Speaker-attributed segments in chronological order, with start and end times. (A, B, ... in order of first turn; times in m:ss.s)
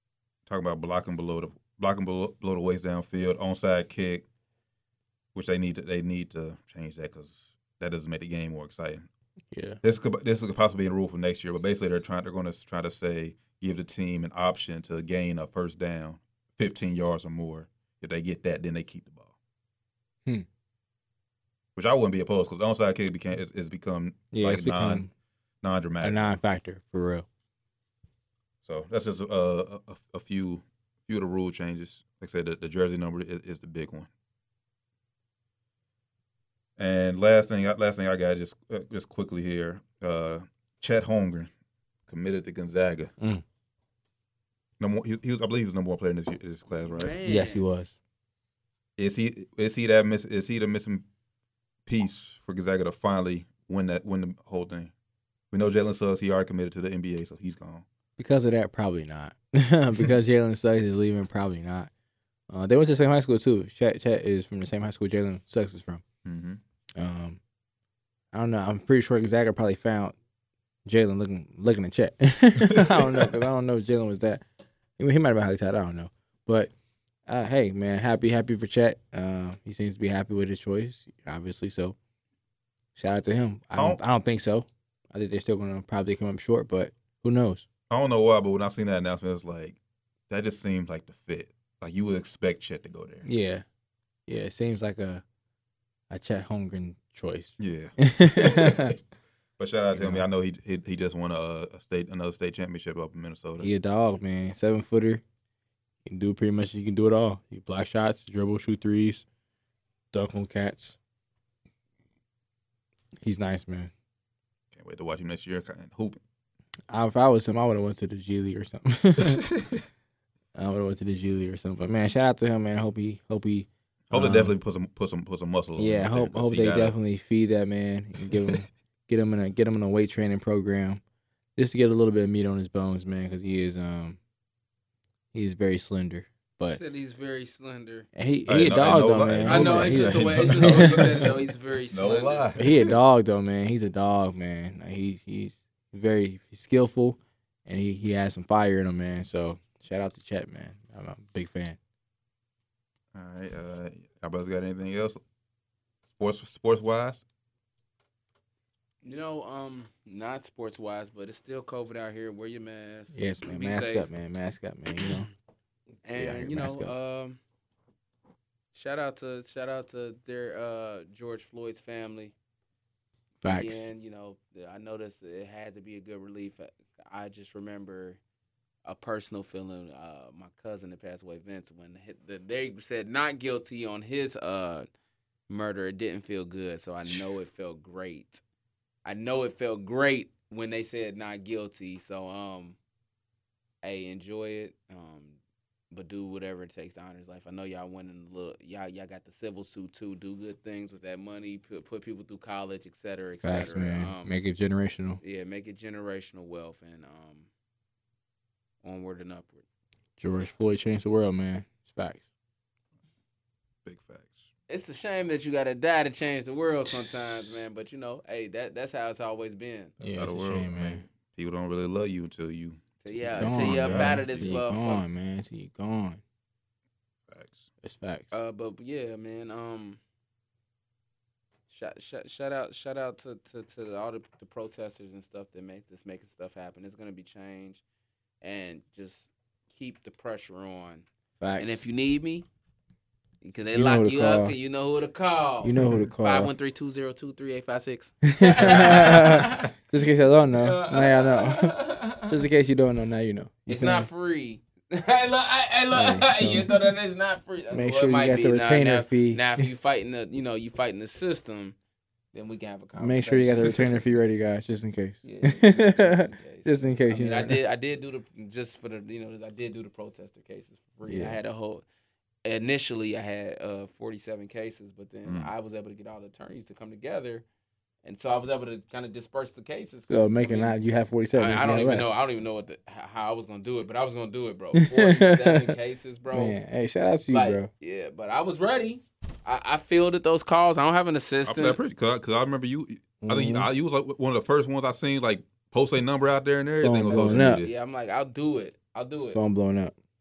0:00.5-0:04.2 A
0:05.3-0:09.1 A
0:09.5-0:09.8 B
0:09.8-0:19.3 A
0:21.8-0:25.1 A
0:24.3-0:25.1 B
0:25.6-0:26.4 A
0:26.0-0:27.3 B
0:28.6-0:34.1 A
0:36.8-0:41.5 A
0:42.1-0:43.1 A
0:44.8-0:47.2 A
0:46.9-0:47.6 C
0:47.2-0:48.0 B
0:49.0-0:51.0 A
0:51.9-0:54.9 A
0:55.5-0:57.8 A
0:58.2-1:01.9 B
1:02.5-1:06.0 B
1:06.2-1:06.6 A
1:07.0-1:07.4 B
1:08.3-1:10.2 B
1:10.9-1:14.4 B
1:12.7-1:13.4 A
1:15.0-1:16.7 B
1:17.3-1:22.0 B
1:23.0-1:27.7 B
1:27.9-1:29.8 A
1:30.3-1:33.3 A
1:33.2-1:33.6 B
1:34.3-1:35.2 B
1:36.1-1:39.0 B
1:37.6-1:39.0 A
1:39.6-1:43.7 A
1:40.0-1:40.3 B
1:43.6-1:45.2 B
1:46.1-1:49.2 B
1:50.1-1:51.0 B
1:53.2-1:53.9 B
1:54.7-1:56.2 A
1:56.9-1:59.4 B
1:59.2-1:59.8 A
2:00.6-2:04.5 B
2:04.1-2:07.0 A
2:05.8-2:11.0 B
2:11.6-2:14.2 B
2:15.3-2:16.8 B
2:16.7-2:18.1 C
2:18.2-2:21.2 B
2:18.5-2:21.3 A
2:19.4-2:22.5 C
2:21.9-2:23.0 A
2:22.6-2:31.8 B
2:33.1-2:35.2 A
2:36.1-2:37.2 A
2:39.0-2:44.1 C
2:43.1-2:45.3 B
2:46.0-2:47.4 C
2:46.2-2:46.9 B
2:48.7-2:52.3 C
2:53.4-2:53.9 B
2:53.4-2:58.2 C
2:58.8-3:04.9 C
3:05.5-3:08.4 C
3:09.0-3:12.8 C
3:13.8-3:15.4 C
3:15.9-3:24.3 C
3:23.4-3:25.2 B
3:25.2-3:27.5 C
3:28.8-3:29.6 C
3:30.2-3:32.3 B
3:33.8-3:34.5 A
3:34.7-3:40.0 C
3:40.0-3:41.0 B
3:40.2-3:44.5 A
3:43.0-3:45.0 C
3:43.4-3:46.2 B
3:47.3-3:47.7 A
3:47.8-3:48.3 B
3:48.3-3:50.0 C
3:51.7-3:57.8 C
3:58.4-4:01.0 C
4:01.4-4:01.9 B
4:01.6-4:02.5 C
4:03.4-4:09.7 C
4:03.7-4:04.6 B
4:05.6-4:06.5 B
4:08.2-4:14.1 B
4:10.5-4:12.4 C
4:13.7-4:21.8 C
4:16.0-4:16.8 B
4:17.7-4:19.6 B
4:22.3-4:24.1 C
4:23.0-4:27.6 B
4:25.2-4:31.8 C
4:31.1-4:31.4 B
4:32.4-4:37.4 C
4:35.2-4:35.5 A
4:38.0-4:40.8 C
4:40.1-4:42.2 B
4:41.4-4:46.6 C
4:44.7-4:45.8 B
4:46.3-4:47.7 B
4:47.3-4:51.8 C
4:51.5-4:57.8 A
4:53.2-4:53.7 B
4:56.8-4:57.6 B
4:57.1-4:59.4 C
4:59.3-4:59.9 B